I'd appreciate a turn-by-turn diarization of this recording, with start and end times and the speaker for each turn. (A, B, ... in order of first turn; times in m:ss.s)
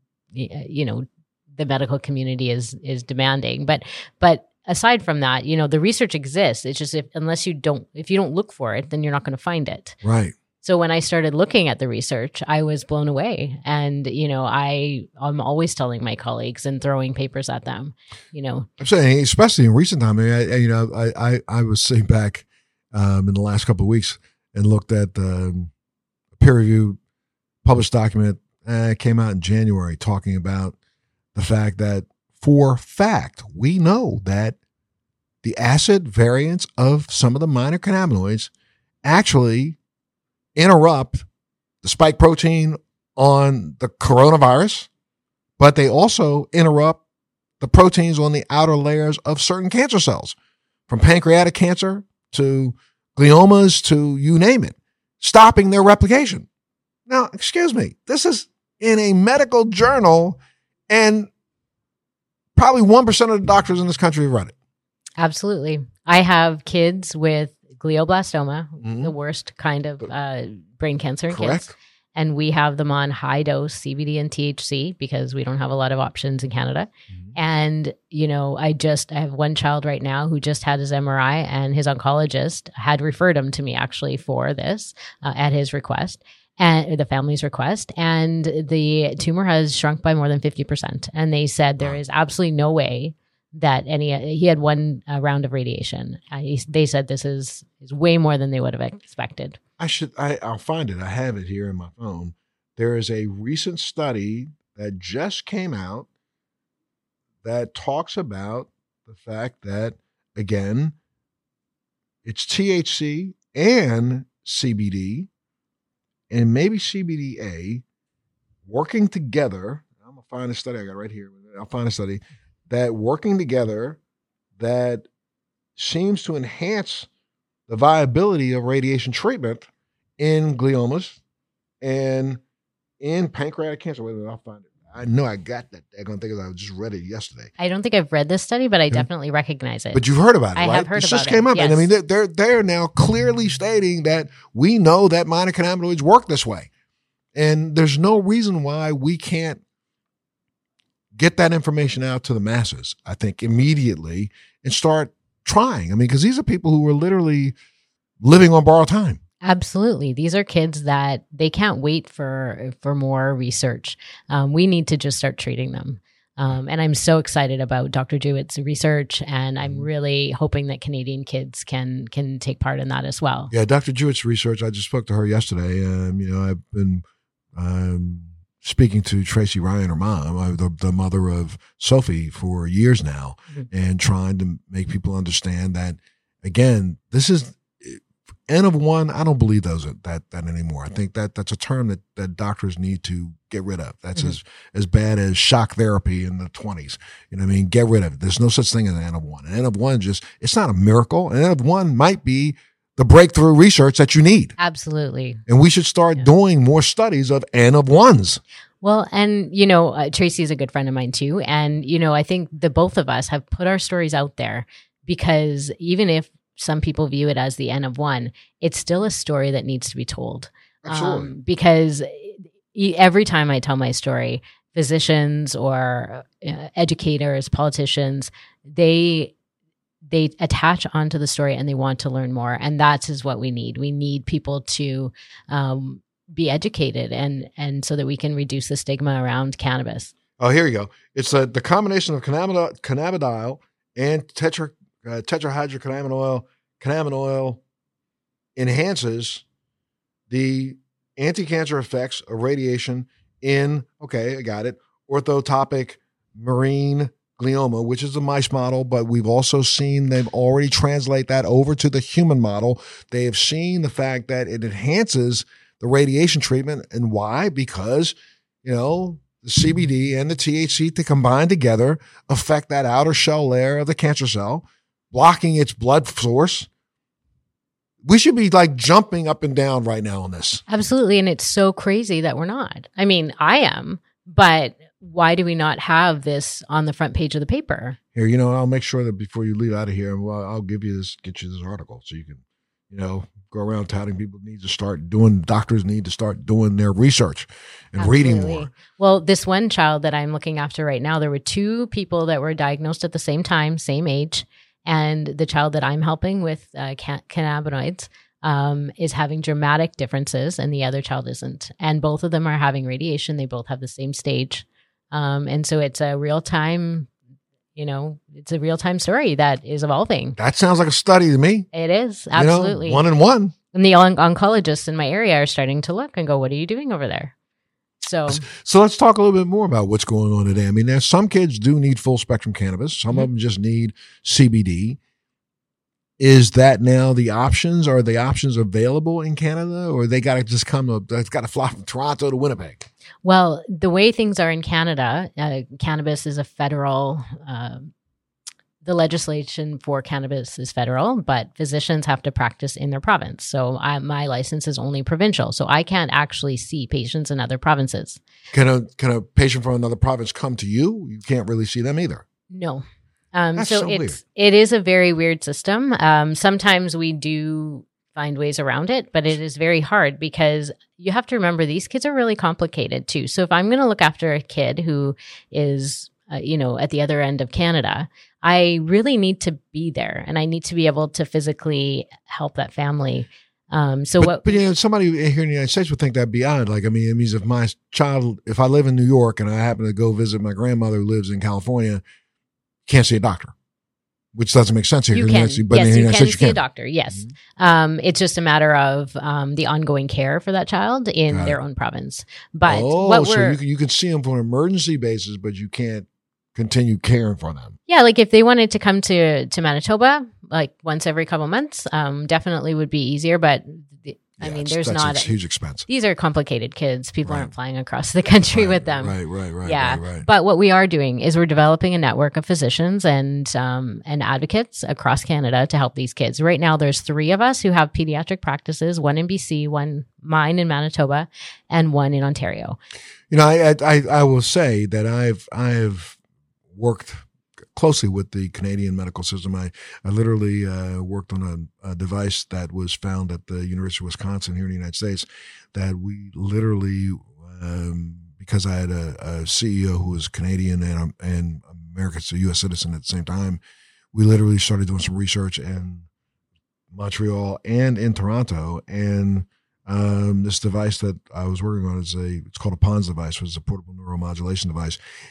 0:00.3-0:10.0 A
0:10.0-0:10.4 B
0:10.6-0:18.7 A
0:18.8-0:25.7 B
0:26.4-0:27.0 B
0:27.6-0:30.8 B
0:31.3-0:34.6 B
0:35.4-0:38.5 B
0:39.0-0:39.8 B
0:40.5-0:41.2 B
0:41.8-0:44.9 B
0:45.6-0:47.0 B
0:47.6-0:50.4 B
0:50.9-0:56.5 B
0:57.1-1:01.3 B
1:02.6-1:04.5 B
1:05.2-1:39.6 A
1:08.8-1:09.1 B
1:11.3-1:11.7 B
1:39.8-1:46.1 B
1:47.4-1:50.9 B
1:52.2-1:55.3 B
1:56.3-1:57.8 B
1:58.6-2:04.0 B
2:04.6-2:05.0 B
2:05.8-2:07.1 B
2:07.7-2:09.7 B
2:10.2-2:11.2 B
2:11.8-2:12.4 B
2:13.0-2:17.5 B
2:17.6-2:20.0 A
2:19.9-2:26.7 B
2:20.5-2:21.9 A
2:27.3-2:29.6 B
2:31.1-2:37.6 B
2:38.2-2:39.2 B
2:39.4-2:53.5 A
2:49.6-2:49.9 B
2:53.5-3:24.5 B
3:24.6-3:25.4 A
3:25.5-3:28.4 B
3:28.8-3:49.3 A
3:40.8-3:41.3 B
3:50.1-4:00.1 A
4:00.4-4:07.6 B
4:08.6-4:09.4 B
4:10.3-4:36.7 B
4:38.0-4:40.6 B
4:40.7-4:48.0 A
4:48.1-4:58.7 B
4:58.0-5:17.1 A
5:17.8-5:20.4 A
5:20.4-5:21.7 B
5:21.7-5:23.0 A
5:22.3-5:23.5 B
5:23.7-5:27.3 A
5:28.0-5:28.4 A
5:28.3-5:35.0 B
5:36.2-5:42.9 B
5:43.2-5:47.9 A
5:48.8-5:58.2 A
5:58.5-6:02.2 B
6:02.5-6:24.6 A
6:03.6-6:04.2 B
6:24.2-6:32.0 B
6:32.9-6:33.5 B
6:34.3-6:36.6 B
6:35.1-6:43.6 A
6:41.3-6:41.6 B
6:42.6-6:47.8 B
6:47.9-6:55.3 A
6:54.4-6:55.8 B
6:55.9-7:12.8 A
6:57.2-6:57.5 B
6:58.5-7:00.3 B
7:13.3-7:16.2 B
7:16.7-7:33.6 B
7:34.1-7:36.0 B
7:36.9-7:45.0 B